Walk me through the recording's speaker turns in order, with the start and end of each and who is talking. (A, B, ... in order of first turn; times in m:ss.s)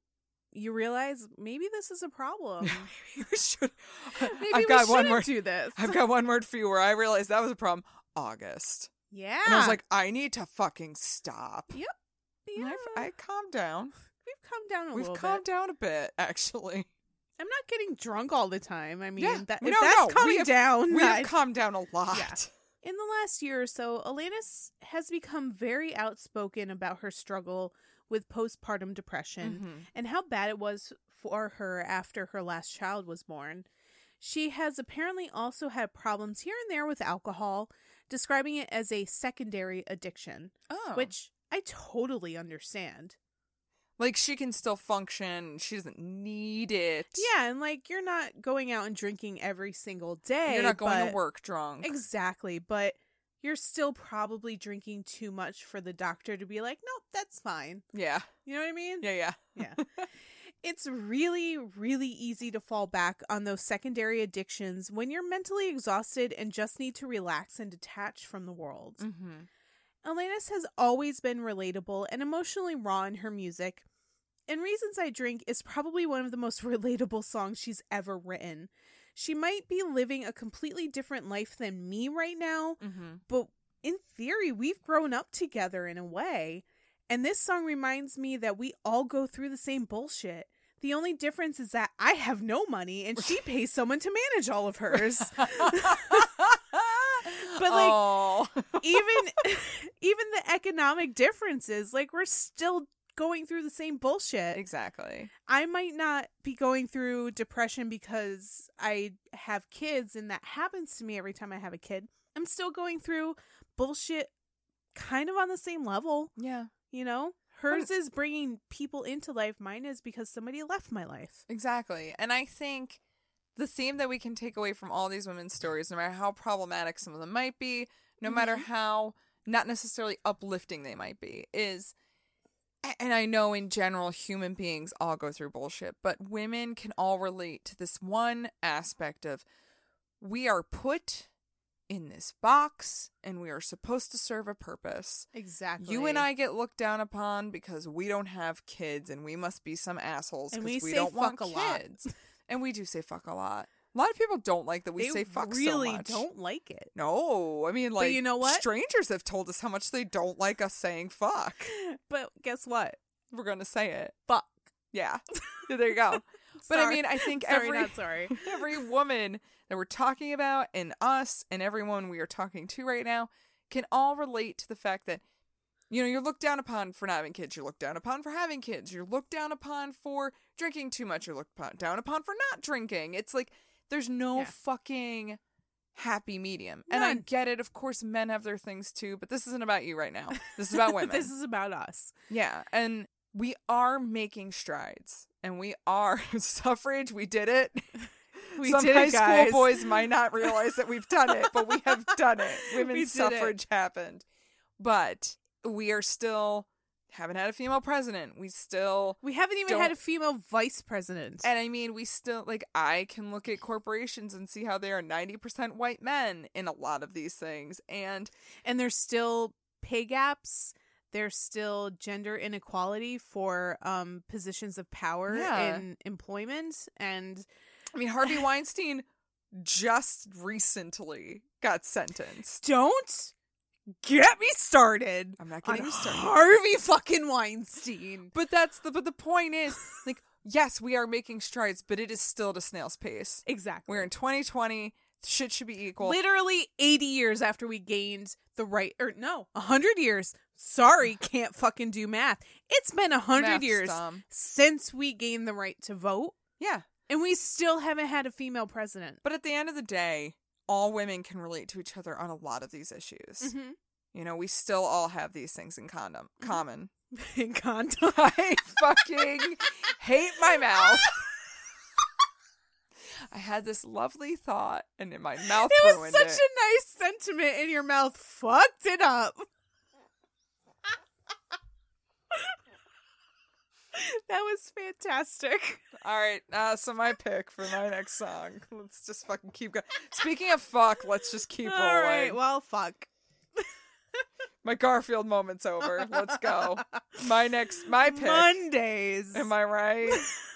0:00.5-0:02.9 A
0:02.6-0:08.9 B
0:04.3-0:06.0 A
0:09.1-0:09.8 A
0:09.4-0:11.8 B
0:12.5-0:13.1 A
0:12.6-0:13.9 B
0:14.2-0:15.4 A
0:14.9-0:16.9 B
0:17.4-0:21.4 A
0:19.2-0:22.5 B
0:22.1-0:33.7 A
0:29.4-0:29.9 B
0:34.2-0:43.2 A
0:40.7-0:41.1 B
0:44.0-0:47.3 B
0:47.1-0:51.2 A
0:50.5-0:52.0 B
0:51.8-0:57.8 A
0:57.9-0:58.3 B
0:58.4-0:59.8 A
0:59.0-1:00.0 B
1:00.6-1:09.0 A
1:09.0-1:09.5 B
1:10.0-1:13.8 A
1:14.5-1:36.3 A
1:22.8-1:23.2 B
1:35.0-1:39.0 B
1:37.6-1:38.2 A
1:38.8-1:44.6 A
1:44.5-1:45.3 B
1:45.4-1:54.3 A
1:55.0-2:01.4 A
1:56.4-1:56.7 B
2:01.5-2:03.0 B
2:03.6-2:11.9 B
2:08.3-2:08.7 A
2:12.8-2:19.4 B
2:20.2-2:21.3 B
2:21.9-2:25.3 B
2:25.3-2:26.3 A
2:25.8-2:36.2 B
2:30.5-2:32.0 A
2:35.0-2:36.9 A
2:37.0-2:41.7 B
2:38.0-2:38.6 A
2:41.7-2:43.0 A
2:43.3-2:44.2 B
2:44.3-2:44.7 A
2:44.9-2:55.2 B
2:46.7-2:48.5 A
2:55.9-3:05.4 B
3:06.0-3:11.3 B
3:06.9-3:07.3 A
3:10.4-3:12.1 A
3:12.3-3:24.2 B
3:18.6-3:20.0 A
3:21.4-3:23.6 A
3:24.8-3:30.0 B
3:29.2-3:31.5 A
3:31.4-3:38.3 B
3:38.6-3:47.5 A
3:45.3-3:45.8 B
3:47.9-3:52.6 B
3:52.6-3:53.3 A
3:54.0-3:58.3 A
3:55.4-3:56.4 B
3:58.3-4:06.2 B
4:03.5-4:04.1 A
4:06.0-4:16.4 A
4:13.4-4:14.2 B
4:16.6-4:16.9 B
4:17.1-4:19.2 A
4:19.2-4:23.5 B
4:23.4-4:23.8 A
4:24.1-4:26.9 B
4:27.1-4:28.6 A
4:28.1-4:31.1 B
4:30.5-4:31.0 A
4:33.3-4:36.4 B
4:35.5-4:39.4 A
4:43.9-4:45.8 A
4:46.0-4:52.4 B
4:51.6-4:53.1 A
4:54.6-4:58.6 B
4:55.9-4:57.1 A
4:58.0-4:59.5 A
4:59.3-5:00.2 B